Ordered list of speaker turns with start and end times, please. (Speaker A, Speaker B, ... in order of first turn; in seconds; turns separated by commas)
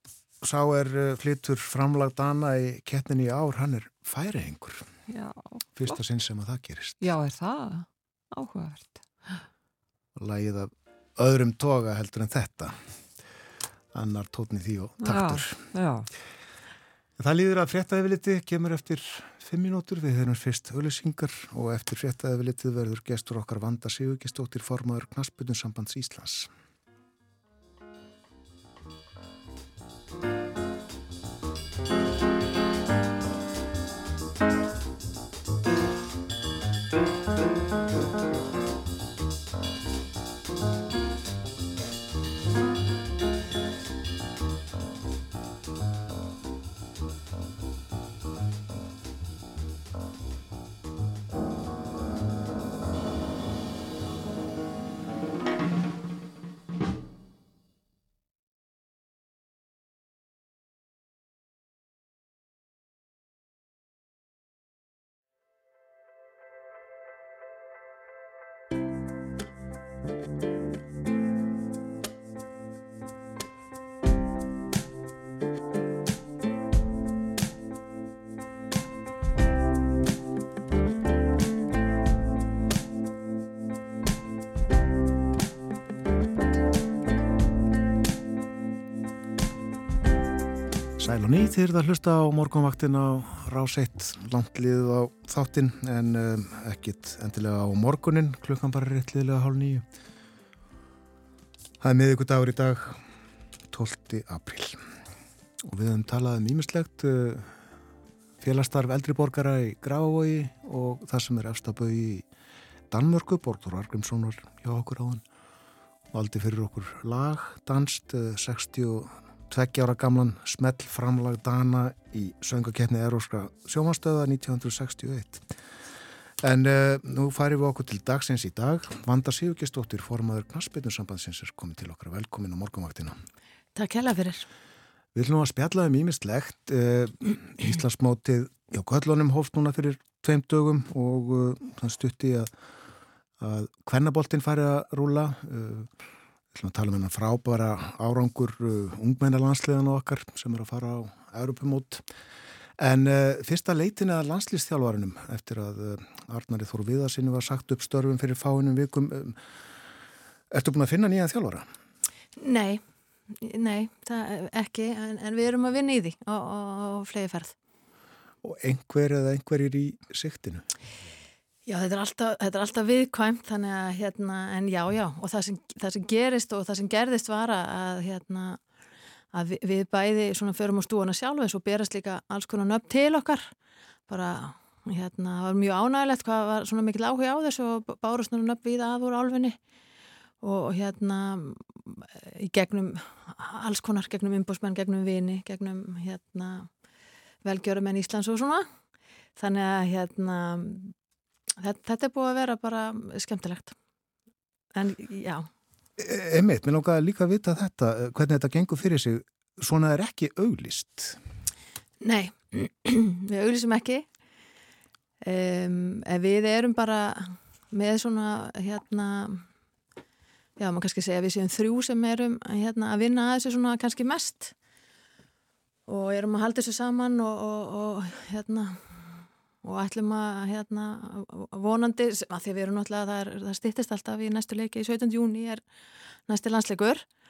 Speaker A: 0.4-4.9, Speaker B: 5.1-6.0, Speaker A: 5.8-7.0, Speaker B: 7.0-9.4, Speaker A: 10.2-12.8, Speaker A: 13.9-15.6, Speaker B: 15.0-16.1, Speaker A: 17.2-26.5, Speaker A: 91.0-99.8, Speaker A: 101.8-103.0, Speaker A: 103.7-104.8, Speaker A: 105.6-107.5, Speaker A: 108.4-112.2, Speaker A: 112.9-115.2, Speaker A: 116.1-125.5, Speaker A: 126.4-133.2, Speaker C: 133.7-134.4, Speaker A: 135.1-142.5, Speaker A: 143.4-145.9, Speaker A: 146.5-152.0, Speaker A: 152.8-159.4, Speaker A: 160.5-161.7, Speaker C: 162.4-167.5, Speaker A: 168.4-170.6, Speaker C: 171.7-178.6, Speaker C: 179.3-183.5, Speaker C: 184.1-189.6, Speaker C: 190.4-196.7, Speaker C: 197.4-198.7, Speaker C: 199.4-200.9, Speaker C: 201.6-203.8, Speaker C: 204.7-205.5, Speaker A: 206.0-211.2, Speaker C: 212.0-214.1, Speaker C: 215.2-219.4, Speaker C: 220.6-224.5, Speaker C: 225.9-235.6, Speaker C: 236.3-237.0